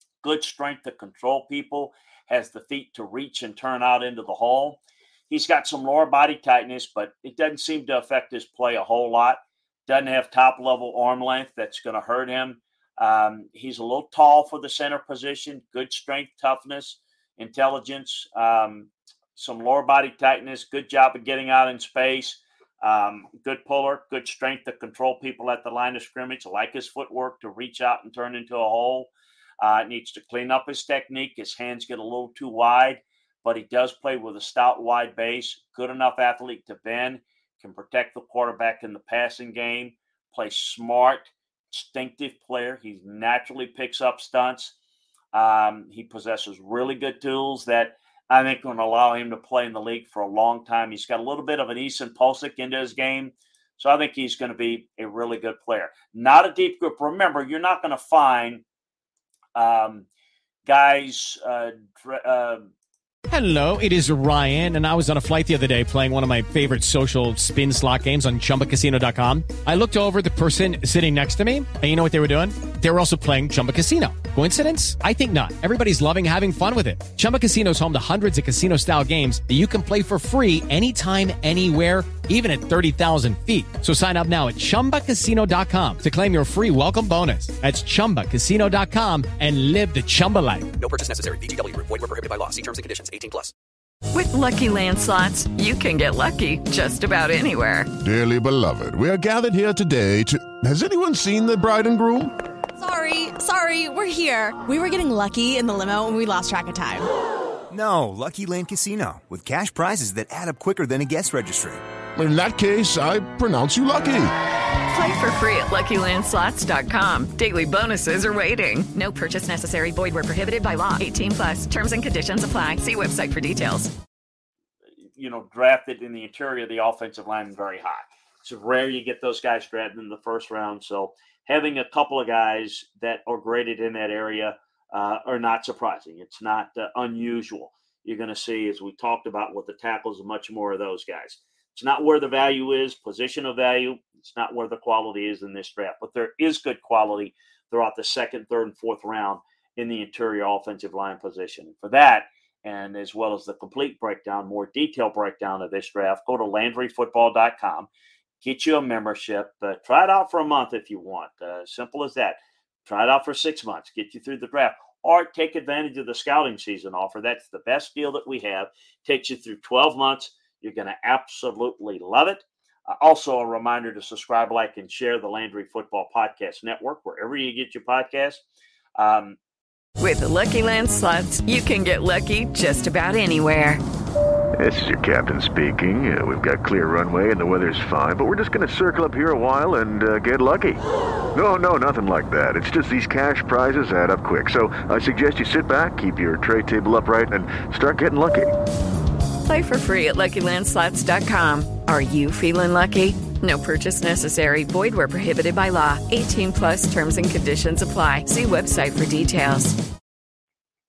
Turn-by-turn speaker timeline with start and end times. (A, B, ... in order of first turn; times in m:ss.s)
0:00.2-0:44.8 A
0:45.3-0:58.6 A
0:59.5-1:00.0 A
1:00.6-1:02.7 A
1:03.3-1:30.7 B
1:30.8-1:33.5 C
1:34.1-1:37.9 D
1:38.0-1:42.3 E
1:42.8-1:47.1 F
1:47.7-1:51.8 G
1:52.2-1:54.3 E
1:54.9-2:03.9 D
2:05.2-2:37.9 A
2:38.4-2:58.4 A
2:59.0-2:59.4 A
3:00.0-3:03.8 D
3:04.6-3:10.8 H
3:11.3-3:18.5 H
3:19.4-3:29.8 D